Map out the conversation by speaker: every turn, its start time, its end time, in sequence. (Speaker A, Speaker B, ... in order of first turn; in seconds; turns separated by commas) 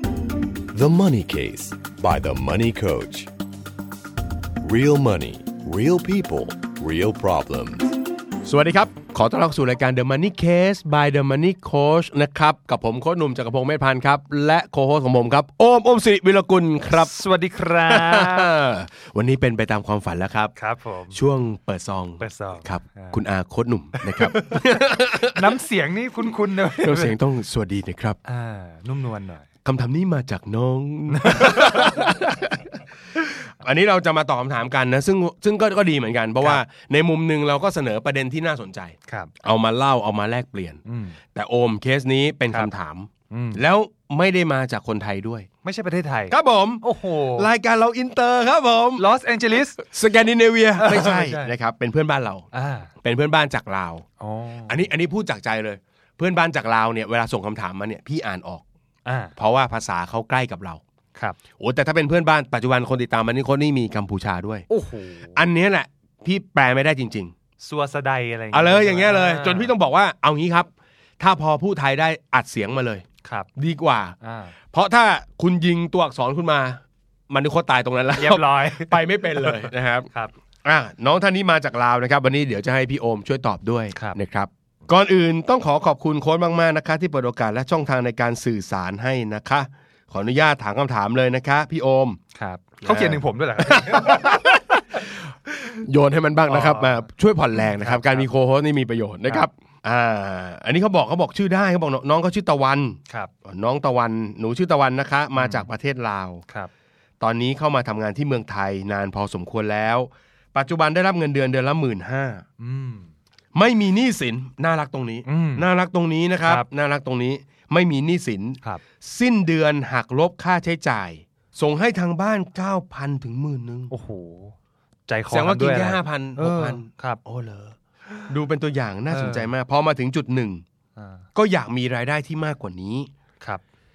Speaker A: 0.7-3.3, Speaker A: 4.6-7.9, Speaker B: 8.4-17.2, Speaker C: 16.9-18.6, Speaker B: 17.8-20.5, Speaker C: 20.6-21.2, Speaker B: 21.1-25.4, Speaker C: 22.2-23.2, Speaker C: 24.0-27.2, Speaker B: 26.7-28.2, Speaker C: 28.2-29.5, Speaker B: 29.6-40.8, Speaker C: 31.1-32.3, Speaker C: 40.9-41.2, Speaker B: 41.3-45.5, Speaker C: 43.3-43.6, Speaker C: 45.6-47.5, Speaker B: 46.3-49.0, Speaker C: 49.0-49.8, Speaker B: 49.8-52.5, Speaker C: 50.8-51.5, Speaker C: 52.5-52.9, Speaker B: 53.0-54.1, Speaker C: 54.2-54.9, Speaker B: 54.7-58.6, Speaker C: 59.1-59.3, Speaker B: 59.4-60.8, Speaker B: 61.6-64.7, Speaker C: 64.7-65.4, Speaker B: 65.3-67.3, Speaker C: 67.6-69.7, Speaker B: 68.5-70.7, Speaker B: 71.2-73.0, Speaker B: 73.6-80.1, Speaker C: 74.2-74.5, Speaker C: 78.2-80.3, Speaker B: 80.6-92.2, Speaker C: 92.3-94.8, Speaker B: 92.8-94.5, Speaker B: 95.6-106.4, Speaker C: 96.5-98.3, Speaker C: 105.4-105.7, Speaker B: 107.2-112.5, Speaker C: 112.6-113.1, Speaker B: 113.5-123.9, Speaker C: 115.2-115.7, Speaker C: 123.9-124.6, Speaker C: 125.1-127.2, Speaker B: 125.3-130.6, Speaker C: 129.1-129.5, Speaker C: 131.0-131.2, Speaker B: 131.3-133.1